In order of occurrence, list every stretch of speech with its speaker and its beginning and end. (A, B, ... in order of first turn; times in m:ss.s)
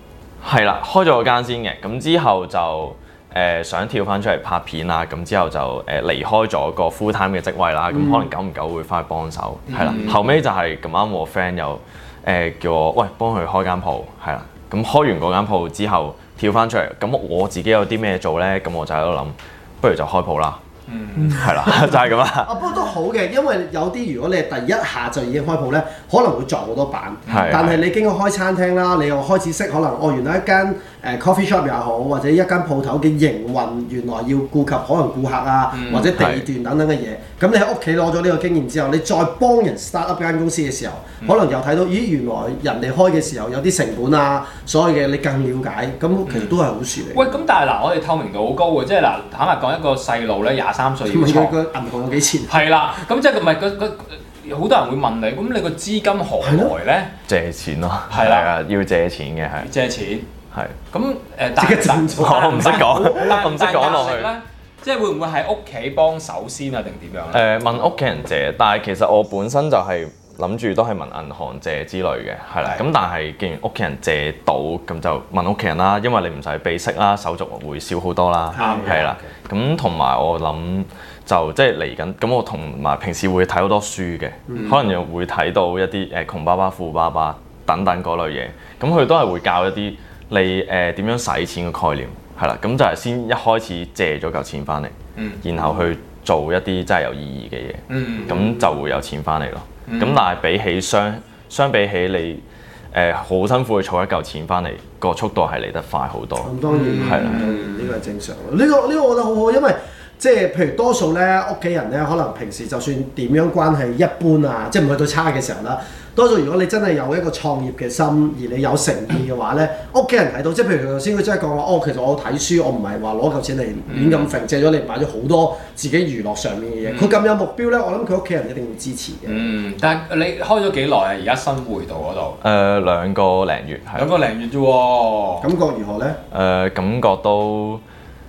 0:00.4-0:20.6 A
0:07.9-0:08.3 B
0:09.7-0:10.4 C
0:09.9-0:10.1 B
0:20.9-0:21.5 C
0:21.3-0:22.5 A
0:21.3-0:47.4 B
0:27.2-0:27.8 C
0:27.3-0:27.8 A
0:35.7-0:36.1 C
0:36.1-0:36.4 A
0:46.2-0:46.6 C
0:47.1-0:51.6 C
0:51.1-0:52.6 B
0:52.5-0:57.1 C
0:56.4-0:56.7 B
0:57.3-0:59.7 A
0:58.1-0:58.5 C
0:59.6-1:00.3 C
1:00.9-1:07.4 C
1:01.6-1:03.4 B
1:02.2-1:04.3 A
1:07.3-1:47.4 A
1:18.5-1:18.9 B
1:18.6-1:19.3 C
1:24.5-1:24.8 B
1:35.2-1:35.4 C
1:35.6-1:35.8 B
1:37.9-1:38.4 C
1:38.3-1:38.6 B
1:39.9-1:40.2 C
1:46.4-2:09.5 B
1:46.7-1:47.9 C
2:03.9-2:04.3 C
2:06.8-2:07.2 C
2:09.3-2:12.4 C
2:12.4-2:14.1 A
2:13.9-2:15.4 C
2:15.4-2:16.2 B
2:16.3-2:17.8 A